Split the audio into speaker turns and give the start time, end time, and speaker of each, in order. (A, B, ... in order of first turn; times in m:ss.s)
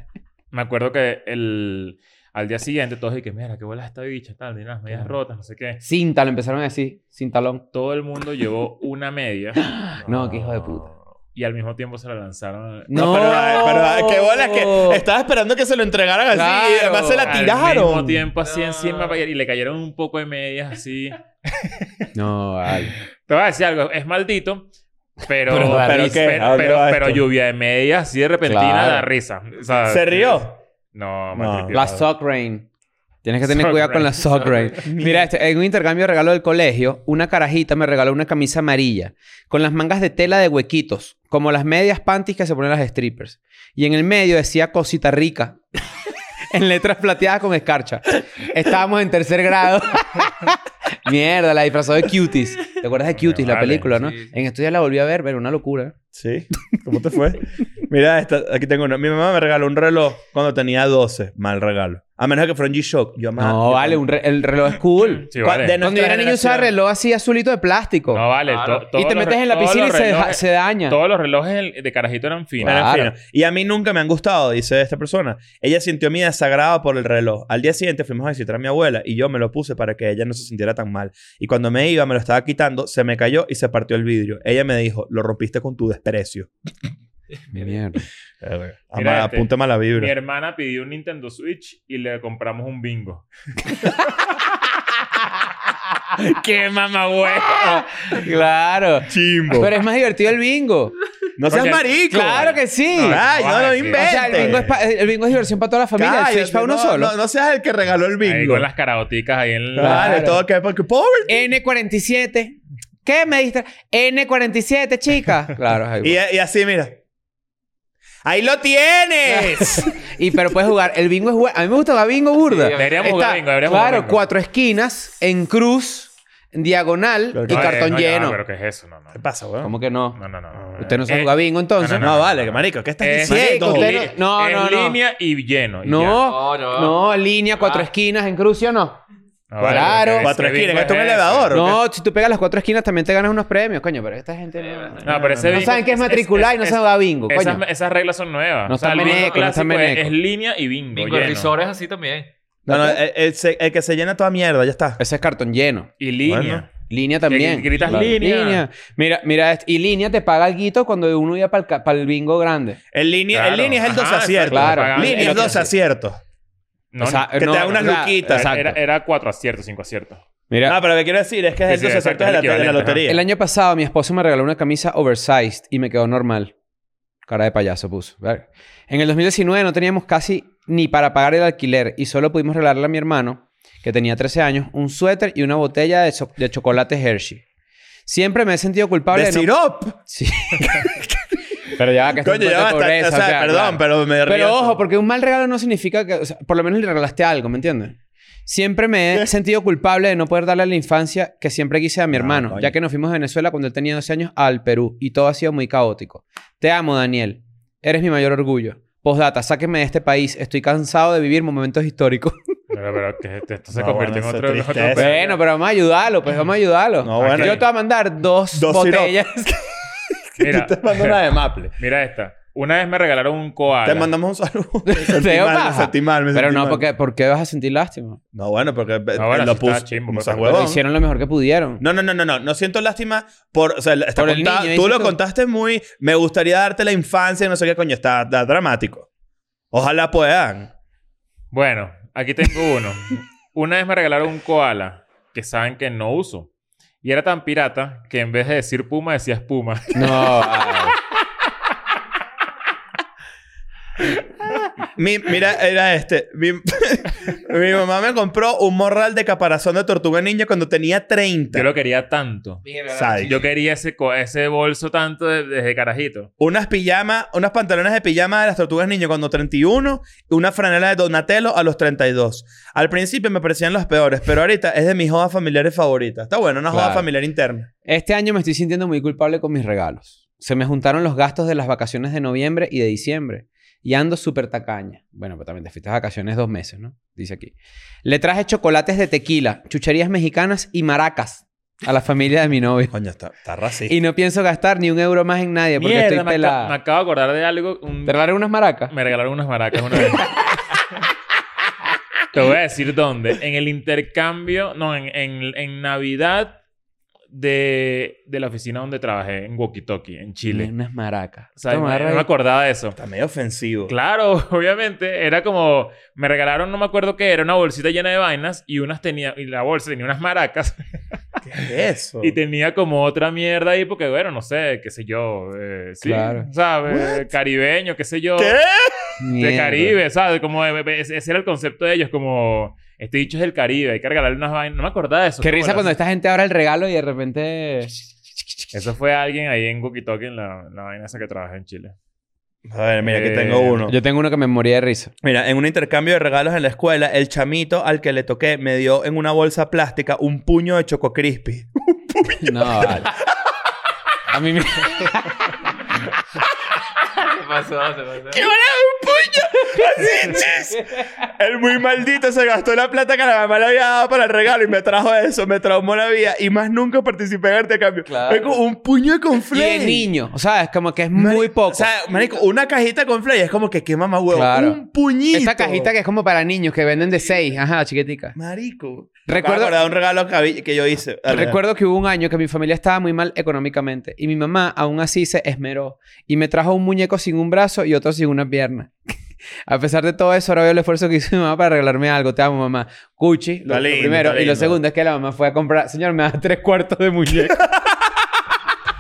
0:00.5-0:05.8 A
0:05.8-0:07.6 B
0:07.7-0:09.7 A
0:09.6-0:10.9 B
0:11.3-0:13.6 A
0:12.9-0:15.0 B
0:12.9-0:18.3 C
0:16.3-0:17.4 B
0:17.2-0:22.1 A
0:18.4-0:19.2 D
0:22.1-0:23.0 B
0:23.2-0:24.7 A
0:25.2-0:30.4 A
0:25.5-0:26.6 B
0:25.5-0:27.2 C
0:28.4-0:29.1 B
0:29.9-0:30.6 C
0:30.9-0:32.0 A
0:31.3-0:32.0 C
0:31.7-0:32.7 B
0:33.2-0:45.6 B
0:33.4-0:34.7 A
0:34.8-0:35.3 C
0:46.5-0:55.9 B
0:53.1-0:53.9 A
0:53.9-0:54.3 D
0:56.1-1:04.0 C
1:03.4-1:05.3 B
1:05.2-1:05.8 A
1:05.4-1:06.7 C
1:05.8-1:08.2 B
1:08.1-1:12.8 A
1:08.5-1:08.9 D
1:08.9-1:11.0 B
1:12.6-1:13.1 B
1:12.6-1:26.5 C
1:27.5-1:28.0 B
1:28.4-1:30.1 C
1:29.0-1:33.3 A
1:36.2-1:37.8 C
1:37.4-1:41.0 B
1:39.1-1:39.8 C
1:41.4-1:44.7 C
1:41.5-1:44.6 A
1:42.1-1:43.2 B
1:43.9-1:47.1 B
1:46.0-1:48.7 C
1:48.2-1:50.3 A
1:49.8-1:51.5 C
1:49.8-1:50.4 B
1:51.3-1:56.2 B
1:56.0-1:57.0 C
1:58.2-2:00.1 C
1:59.3-2:08.4 B
2:02.5-2:03.3 D
2:02.8-2:04.2 A
2:07.3-2:07.8 C
2:07.5-2:09.2 A
2:09.1-2:09.7 C
2:09.6-2:10.2 B
2:10.2-2:16.2 A
2:10.8-2:12.1 B
2:12.0-2:14.1 C
2:13.2-2:15.0 B
2:15.8-2:19.0 B
2:16.2-2:17.0 D
2:17.6-2:17.9 D
2:19.5-2:21.6 A
2:19.6-2:20.3 B
2:19.6-2:21.8 C
2:21.5-2:27.6 B
2:24.6-2:25.7 D
2:25.0-2:31.6 A
2:25.1-2:25.6 C
2:28.7-2:30.1 B
2:30.9-2:32.3 D
2:32.7-2:35.0 C
2:32.7-2:33.0 B
2:35.0-2:35.9 B
2:36.0-2:36.7 A
2:36.3-2:36.6 C
2:36.9-2:42.8 B
2:37.3-2:38.6 A
2:42.9-2:46.2 C
2:43.3-2:45.7 A
2:44.5-2:45.7 B
2:46.9-2:50.2 A
2:47.0-2:48.8 B
2:47.4-2:48.5 C
2:50.5-2:50.8 B
2:50.7-2:53.2 C
2:51.7-2:53.0 A
2:53.1-2:56.5 B
2:57.3-3:07.4 B
3:08.1-3:09.5 B
3:09.1-3:10.0 C
3:10.0-3:10.9 B
3:10.6-3:11.2 C
3:11.7-3:32.4 B
3:12.2-3:14.8 C
3:22.1-3:22.7 C
3:32.7-3:35.4 A
3:33.7-3:35.2 C
3:35.0-3:39.7 B
3:37.0-3:37.6 C
3:37.2-3:37.6 A
3:38.5-3:39.2 C
3:40.4-3:41.7 C
3:40.4-3:41.2 A
3:41.8-3:44.1 A
3:43.8-3:46.9 C
3:44.9-3:48.2 B
3:48.3-3:50.8 C
3:49.2-3:50.7 A
3:50.4-3:51.8 B
3:51.8-3:59.1 C
3:54.2-3:55.2 B
3:59.7-4:00.7 C
4:01.5-4:06.5 A
4:07.0-4:10.8 A
4:09.9-4:11.0 B
4:15.0-4:21.7 C
4:21.5-4:22.6 A
4:22.6-4:23.5 D
4:22.9-4:23.4 C
4:23.2-4:26.3 A
4:26.4-4:37.7 C
4:36.7-4:37.1 B
4:37.8-4:47.5 B
4:48.0-4:53.0 B
4:52.9-4:54.0 C
4:53.9-4:56.7 B
4:55.8-4:58.2 A
4:58.1-4:58.9 B
4:58.9-5:00.5 A
5:02.3-5:06.6 A
5:07.3-5:10.7 A
5:10.5-5:12.3 B
5:11.6-5:13.0 A
5:13.0-5:13.9 C
5:13.9-5:20.8 A
5:21.5-5:22.4 C
5:22.2-5:28.6 A
5:26.0-5:26.5 B
5:26.9-5:27.3 C
5:28.4-5:29.2 C
5:29.2-5:30.0 B
5:29.4-5:35.9 A
5:35.4-5:37.9 B
5:38.7-5:42.0 A
5:42.6-5:44.0 C
5:43.0-5:43.9 A
5:43.9-5:45.1 B
5:45.2-5:53.2 C
5:52.4-5:53.2 B
5:54.3-5:55.6 B
5:57.2-5:58.4 D
5:58.3-6:10.1 C
5:59.7-6:01.1 B
6:08.1-6:08.6 B
6:09.5-6:11.9 B
6:11.2-6:15.9 C
6:14.3-6:14.8 B
6:15.3-6:18.4 B
6:18.4-6:21.6 C
6:19.3-6:19.8 B
6:21.3-6:29.0 B
6:29.7-6:37.6 B
6:33.7-6:34.8 C
6:37.4-6:38.1 C